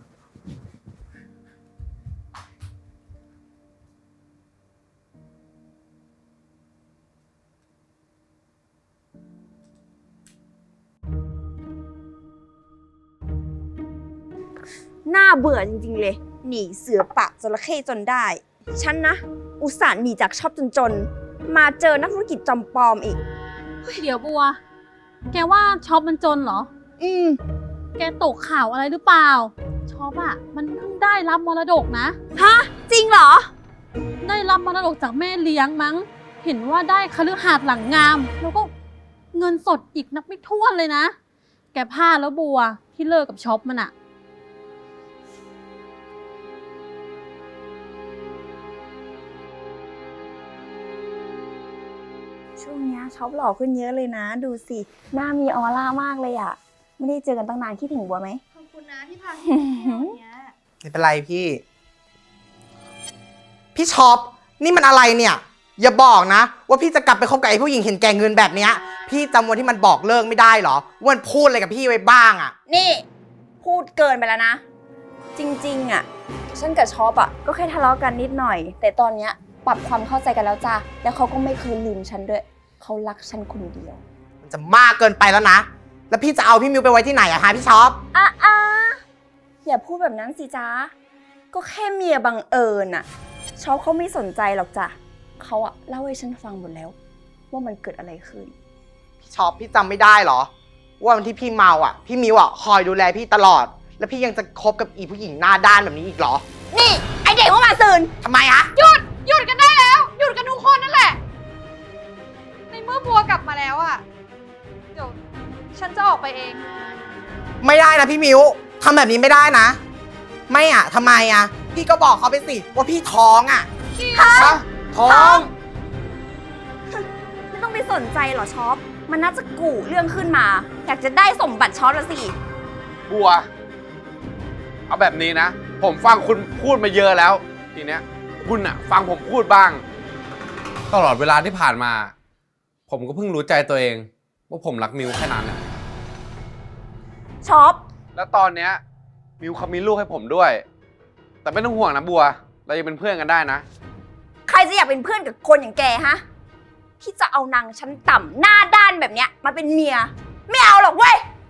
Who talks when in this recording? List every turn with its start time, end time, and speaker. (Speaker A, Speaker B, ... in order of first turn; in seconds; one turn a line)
Speaker A: 15.1-23.2
Speaker B: 23.9-24.6
Speaker B: 25.3-26.7
Speaker A: 27.0-27.4
Speaker B: 28.0-32.2
Speaker A: 32.4-33.5
Speaker B: 34.2-38.7
Speaker B: 39.3-41.1
Speaker B: 41.7-43.9
Speaker A: 52.6-58.4
Speaker C: 58.5-60.5
Speaker A: 59.4-60.2
Speaker D: 60.9-61.6
Speaker D: 63.8-72.5
Speaker A: 72.7-73.0
Speaker A: 73.6-74.6
Speaker A: 75.4-84.0
Speaker D: 84.4-88.0
Speaker A: 88.1-89.0
Speaker A: 89.7-90.9
Speaker A: 91.5-93.1
Speaker A: 93.6-97.0
Speaker A: 97.5-98.5
Speaker D: 99.2-100.5
Speaker D: 101.0-106.4
Speaker A: 106.7-108.1
Speaker D: 108.2-108.7
Speaker C: 108.8-111.2
Speaker C: 112.7-114.0
Speaker C: 114.9-115.2
Speaker C: 115.7-116.7
Speaker D: 117.6-119.8
Speaker D: 120.5-123.7
Speaker C: 123.9-124.6
Speaker A: 124.1-125.5
Speaker A: 127.0-132.4
Speaker E: 133.1-133.5
Speaker E: 134.9-139.8
Speaker E: 140.9-142.1
Speaker E: 142.9-145.6
Speaker A: 147.4-147.8
Speaker E: 148.2-148.8
Speaker E: 149.4-150.6
Speaker E: 151.4-153.7
Speaker A: 154.5-156.2
Speaker A: 157.0-161.2